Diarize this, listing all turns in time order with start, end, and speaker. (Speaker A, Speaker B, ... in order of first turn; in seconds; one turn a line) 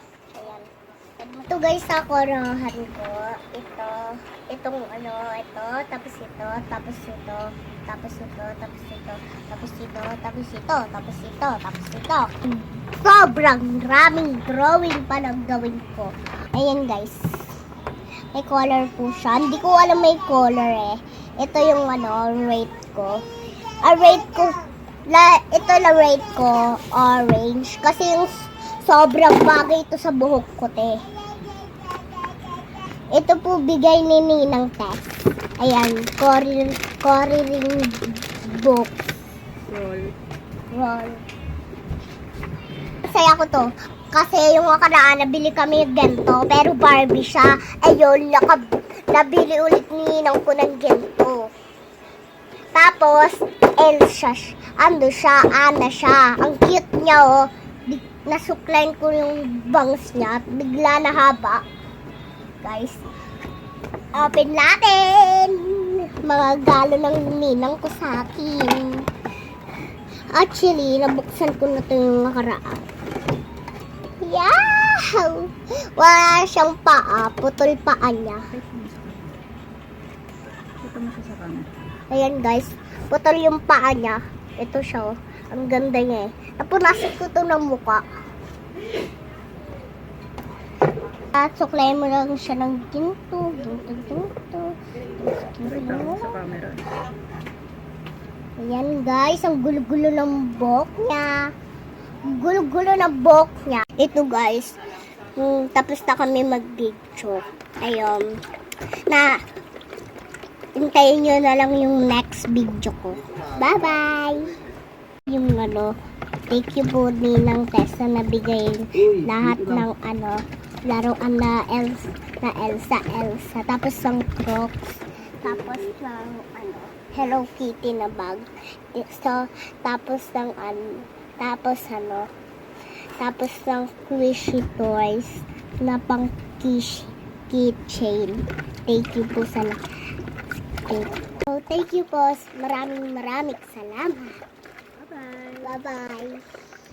Speaker A: 0.3-17.5
Speaker A: 18.3-23.2
Speaker A: 23.8-31.0
Speaker A: 33.1-39.1
Speaker B: 39.6-40.1
Speaker A: 40.7-41.2
Speaker A: 43.1-51.5
Speaker A: 52.8-61.6
Speaker A: 62.6-63.0
Speaker A: 64.1-69.0
Speaker A: 70.3-72.8
Speaker A: 74.2-78.5
Speaker B: 78.5-79.4
Speaker B: 80.8-81.7
Speaker A: 82.1-88.0
Speaker A: 91.3-96.3
Speaker B: 95.5-96.8
Speaker A: 98.6-101.5
Speaker A: 102.3-104.8
Speaker A: 105.4-108.3
Speaker A: 109.1-109.4
Speaker A: 110.8-114.5
Speaker A: 115.3-116.0
Speaker A: 116.5-132.3
Speaker A: 133.2-139.8
Speaker A: 140.8-144.4
Speaker B: 145.0-145.7
Speaker A: 145.6-146.4